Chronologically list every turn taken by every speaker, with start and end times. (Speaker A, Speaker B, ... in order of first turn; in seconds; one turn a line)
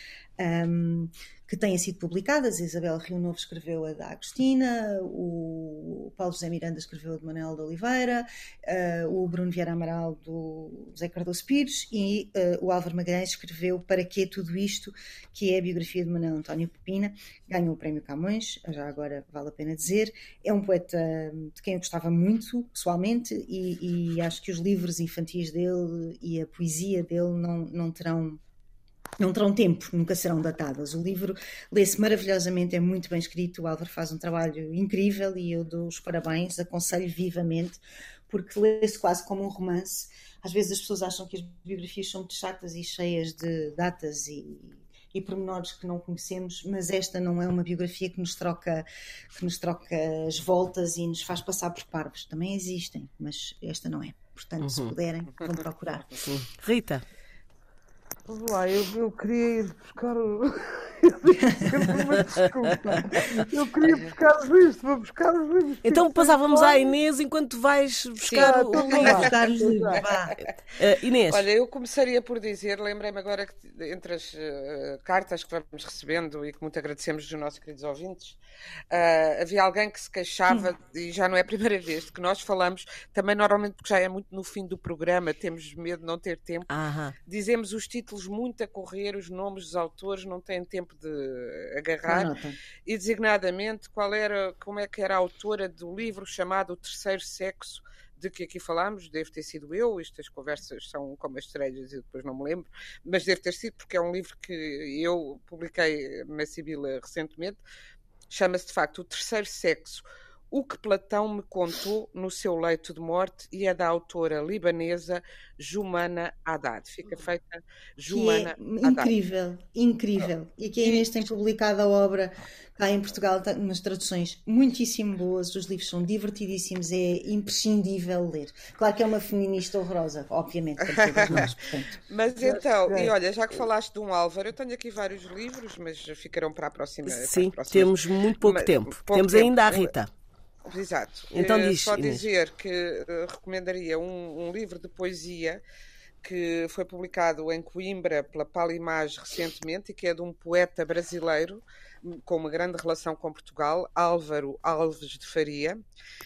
Speaker A: 0.4-28.4
Speaker A: 29.2-56.3
Speaker B: 54.6-54.9
Speaker B: 56.2-57.0
Speaker C: 58.3-67.0
Speaker A: 61.5-61.8
Speaker D: 63.9-64.1
Speaker B: 65.8-69.3
Speaker D: 68.3-70.4
Speaker C: 68.4-70.0
Speaker A: 68.7-70.4
Speaker B: 70.8-71.4
Speaker D: 71.3-78.4
Speaker D: 78.9-86.7
Speaker B: 86.7-87.2
Speaker D: 87.3-92.3
Speaker A: 92.1-92.6
Speaker D: 92.9-107.6
Speaker D: 108.3-119.1
Speaker A: 118.1-132.0
Speaker D: 120.8-121.1
Speaker D: 130.8-131.5
Speaker D: 132.1-139.9
Speaker C: 132.4-133.1
Speaker B: 137.1-140.1
Speaker D: 140.7-145.6
Speaker B: 141.3-142.2
Speaker D: 146.2-155.8